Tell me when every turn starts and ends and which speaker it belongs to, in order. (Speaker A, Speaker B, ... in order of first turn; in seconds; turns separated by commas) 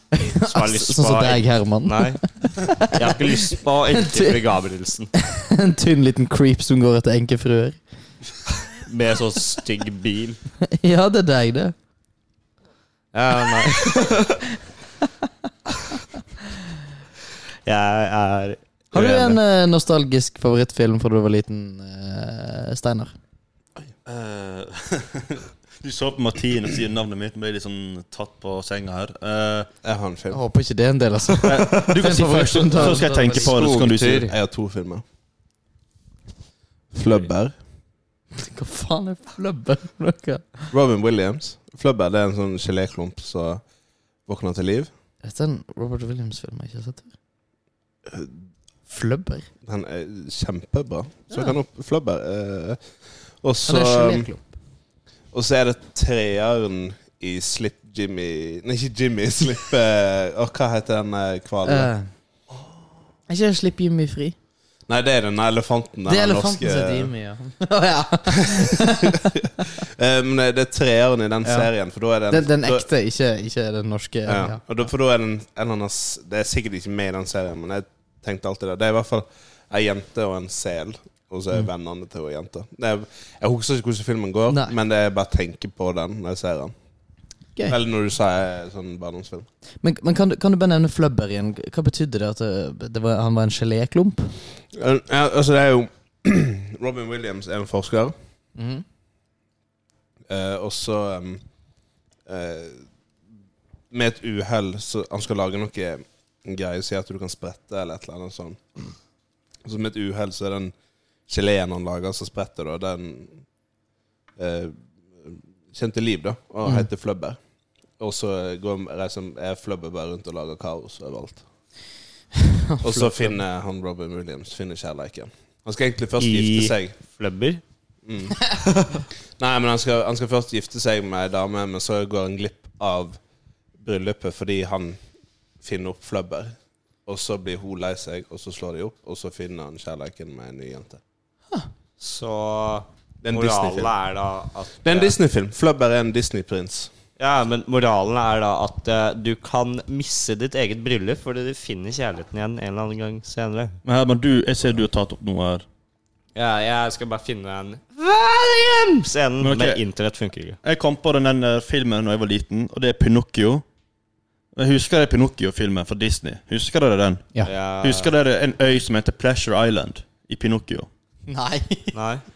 Speaker A: 0.1-3.2, Speaker B: 0.4-2.2, Speaker B: 2.8-5.1, Speaker A: 3.9-4.4, Speaker A: 5.2-7.8, Speaker B: 8.8-10.4, Speaker A: 10.7-11.7, Speaker B: 13.1-14.4, Speaker A: 13.7-14.4, Speaker B: 17.6-19.3, Speaker A: 18.9-23.1, Speaker C: 24.1-29.7, Speaker D: 29.8-30.4, Speaker A: 30.3-33.5, Speaker C: 31.4-34.3, Speaker D: 33.3-35.0, Speaker B: 33.6-34.0, Speaker D: 36.9-37.5, Speaker A: 38.4-40.7, Speaker D: 40.7-43.6, Speaker D: 44.3-44.9, Speaker A: 45.2-47.1, Speaker A: 48.9-49.5, Speaker D: 49.6-52.8, Speaker D: 53.4-54.3, Speaker A: 53.7-54.5, Speaker D: 55.3-61.9, Speaker A: 61.6-62.0, Speaker A: 63.3-64.3, Speaker D: 64.9-67.1, Speaker A: 66.1-69.4, Speaker D: 68.3-72.9, Speaker A: 72.3-74.6, Speaker D: 74.3-86.7, Speaker D: 87.7-89.5, Speaker A: 89.8-94.3, Speaker D: 94.7-98.1, Speaker A: 98.5-98.8, Speaker D: 100.3-101.4, Speaker D: 102.3-102.8, Speaker D: 103.9-108.6, Speaker D: 109.6-110.7, Speaker D: 111.3-113.4, Speaker D: 114.4-117.4, Speaker D: 118.0-121.4, Speaker A: 122.4-123.4, Speaker D: 122.8-126.9, Speaker B: 126.2-127.6, Speaker D: 128.1-128.5, Speaker B: 128.6-129.0, Speaker D: 129.4-133.2, Speaker D: 133.8-135.0, Speaker D: 135.6-141.0, Speaker B: 142.0-145.1, Speaker D: 143.2-143.9, Speaker D: 144.8-146.9, Speaker B: 147.2-153.8, Speaker C: 153.8-155.6, Speaker B: 156.3-160.6, Speaker C: 159.4-159.8, Speaker C: 160.6-163.6, Speaker C: 164.6-167.3, Speaker B: 167.4-168.1, Speaker C: 167.8-170.9, Speaker A: 171.3-171.9, Speaker B: 171.9-172.2